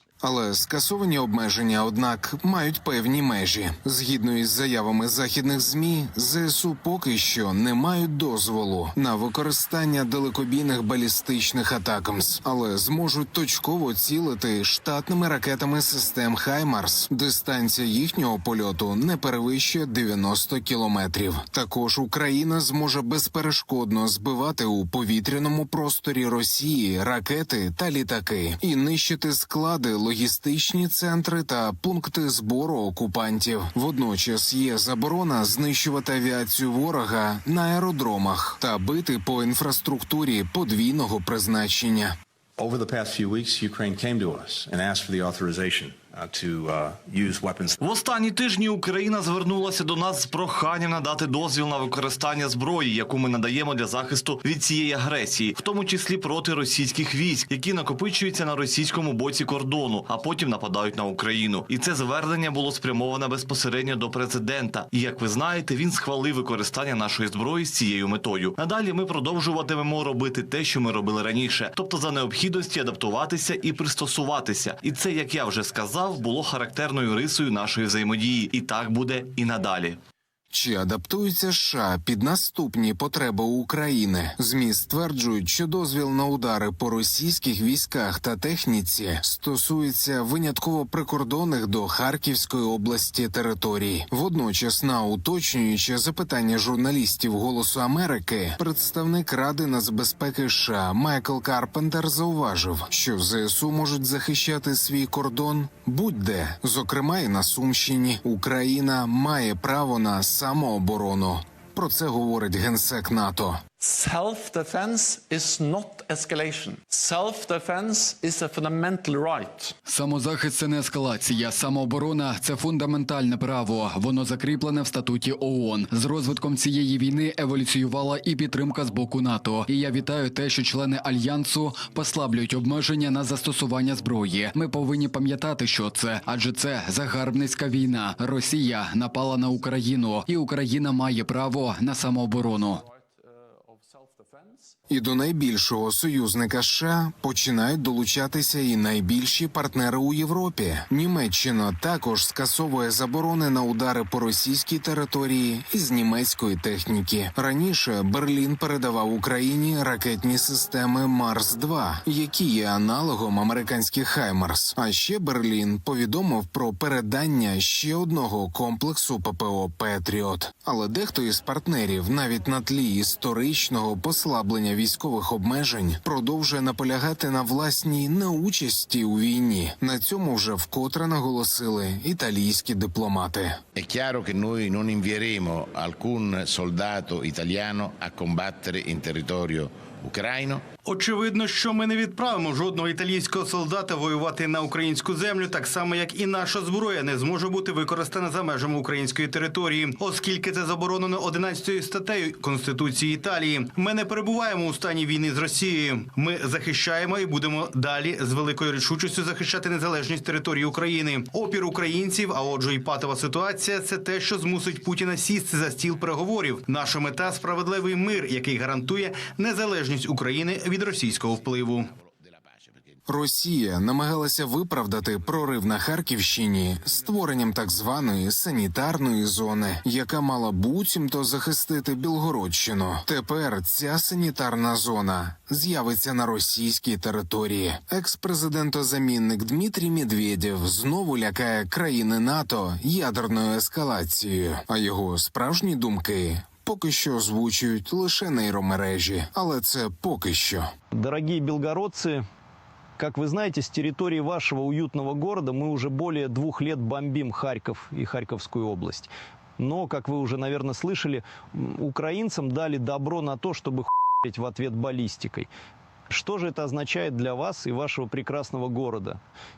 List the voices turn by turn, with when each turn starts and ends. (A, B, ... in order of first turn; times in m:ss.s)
0:00.2-0:42.1 A
0:42.6-0:47.8 B
0:47.8-1:20.0 C
1:20.5-1:53.6 A
1:53.8-1:59.7 D
1:59.9-2:22.8 E
2:24.9-3:03.6 A
3:03.8-3:10.6 F
3:10.9-3:41.9 G
3:43.1-4:10.7 A
4:10.9-4:12.2 H
4:13.0-4:25.5 H
4:26.1-4:29.2 H